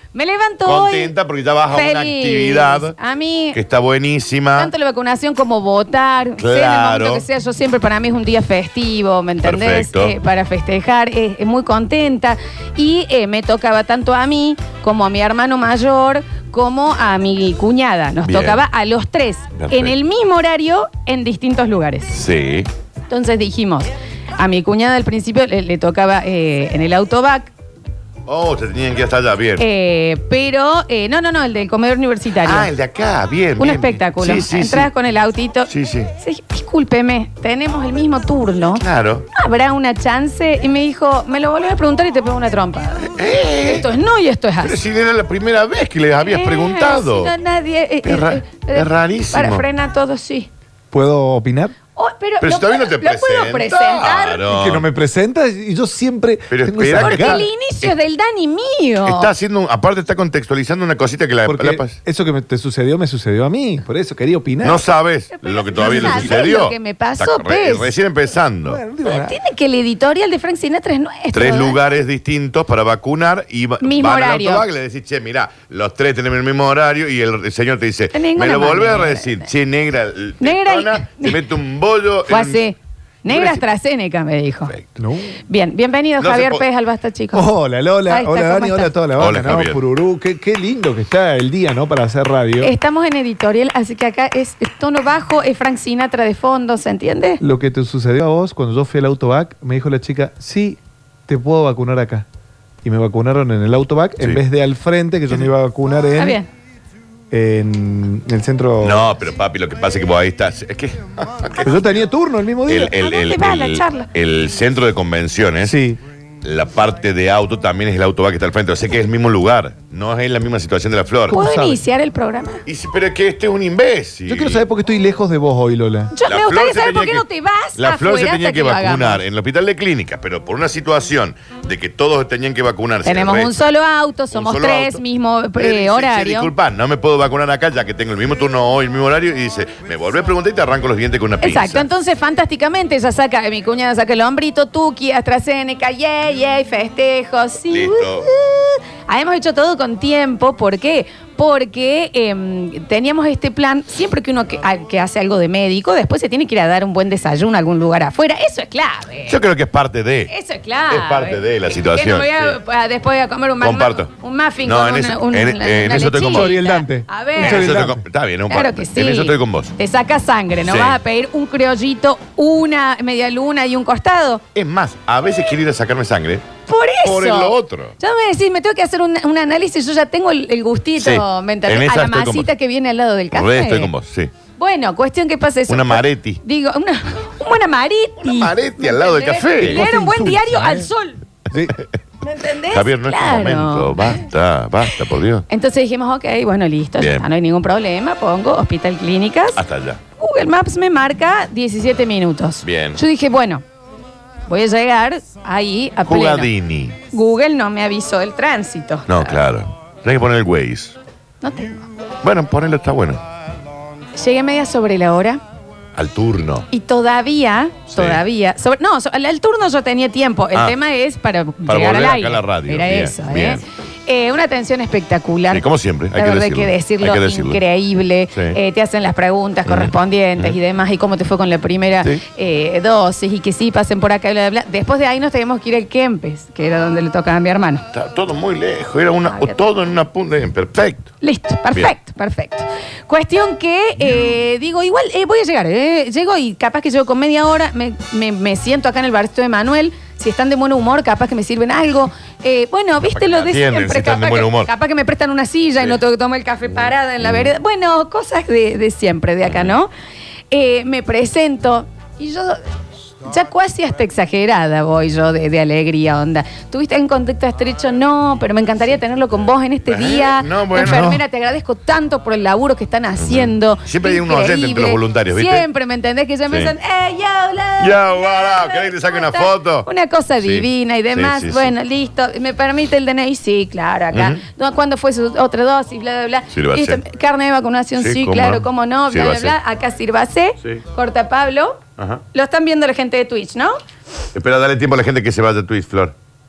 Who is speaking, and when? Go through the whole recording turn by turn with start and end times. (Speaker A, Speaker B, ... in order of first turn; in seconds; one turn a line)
Speaker A: 0.1-1.1
Speaker B: 0.6-3.0
Speaker A: 1.7-3.6
Speaker B: 3.5-4.7
Speaker A: 4.5-22.1
Speaker B: 6.4-7.2
Speaker B: 9.4-10.2
Speaker B: 18.2-18.6
Speaker B: 19.6-19.9
Speaker B: 22.1-22.7
Speaker A: 23.1-27.5
Speaker B: 28.2-29.6
Speaker A: 29.6-32.7
Speaker B: 32.4-34.9
Speaker A: 33.6-43.1
Speaker B: 35.7-36.1
Speaker B: 38.8-39.3
Speaker B: 43.0-43.9
Speaker A: 43.6-44.8
Speaker B: 44.6-47.3
Speaker A: 46.2-50.5
Speaker B: 48.0-49.6
Speaker C: 50.9-51.7
Speaker A: 52.0-54.5
Speaker B: 52.4-54.9
Speaker C: 54.5-57.5
Speaker B: 56.5-57.9
Speaker A: 57.0-59.3
Speaker B: 59.0-62.0
Speaker C: 61.5-64.8
Speaker B: 64.6-68.8
Speaker A: 65.3-67.9
Speaker C: 68.6-69.4
Speaker A: 69.0-71.8
Speaker B: 71.3-82.6
Speaker A: 73.8-74.6
Speaker A: 78.1-79.4
Speaker A: 80.4-81.4
Speaker A: 82.3-84.7
Speaker B: 83.3-83.7
Speaker C: 85.0-85.4
Speaker A: 85.5-87.5
Speaker B: 86.2-86.7
Speaker C: 87.3-92.7
Speaker A: 88.1-88.9
Speaker B: 89.2-89.8
Speaker A: 92.6-97.4
Speaker C: 97.4-102.2
Speaker C: 102.8-106.4
Speaker B: 104.2-104.4
Speaker A: 106.2-106.5
Speaker C: 107.3-109.1
Speaker B: 108.8-112.0
Speaker C: 111.6-112.9
Speaker B: 112.6-115.8
Speaker A: 113.0-114.1
Speaker C: 115.6-116.0
Speaker B: 116.4-121.4
Speaker C: 121.3-121.8
Speaker A: 121.3-122.6
Speaker B: 122.7-124.6
Speaker C: 124.3-126.1
Speaker A: 126.1-129.2
Speaker B: 126.3-127.2
Speaker B: 127.8-133.6
Speaker A: 133.0-136.5
Speaker B: 134.3-135.0
Speaker B: 135.6-141.8
Speaker A: 141.4-159.4
Speaker B: 147.7-148.3
Speaker B: 159.3-160.3
Speaker A: 160.3-167.8
Speaker B: 160.9-162.6
Speaker B: 163.6-164.1
Speaker B: 164.6-166.5
Speaker C: 166.3-168.0
Speaker B: 167.4-169.7
Speaker A: 168.5-174.4
Speaker B: 170.7-171.0
Speaker B: 174.5-176.5
Speaker A: 176.7-183.9
Speaker B: 177.0-177.9
Speaker B: 181.0-182.5
Speaker B: 183.3-184.3
Speaker A: 184.6-191.2
Speaker B: 185.7-186.4
Speaker B: 188.2-189.9
Speaker C: 189.6-190.9
Speaker A: 192.2-194.2
Speaker B: 192.7-195.4
Speaker A: 195.5-199.6
Speaker B: 197.0-197.2
Speaker B: 199.6-200.0
Speaker A: 200.2-203.6
Speaker B: 202.6-203.0
Speaker A: 204.5-206.5
Speaker B: 206.1-207.0
Speaker A: 207.1-209.3
Speaker B: 209.1-211.0
Speaker A: 211.4-211.8
Speaker B: 212.2-213.2
Speaker A: 214.1-215.4
Speaker B: 215.9-216.7
Speaker A: 216.7-237.8
Speaker B: 217.9-218.2
Speaker B: 221.7-223.6
Speaker B: 225.5-227.6
Speaker B: 229.7-230.6
Speaker B: 237.9-241.1
Speaker A: 239.3-239.6
Speaker A: 241.2-259.9
Speaker B: 253.0-254.7
Speaker B: 257.2-257.5
Speaker B: 259.4-259.7
Speaker A: 260.5-262.6
Speaker A: 263.2-291.8
Speaker B: 269.9-271.2
Speaker B: 273.2-275.6
Speaker B: 276.5-276.7
Speaker B: 277.8-279.9
Speaker B: 280.4-281.7
Speaker B: 284.1-284.4
Speaker B: 286.5-287.0
Speaker B: 288.0-289.5
Speaker B: 292.0-292.2
Speaker A: 292.3-293.8
Speaker B: 294.3-296.1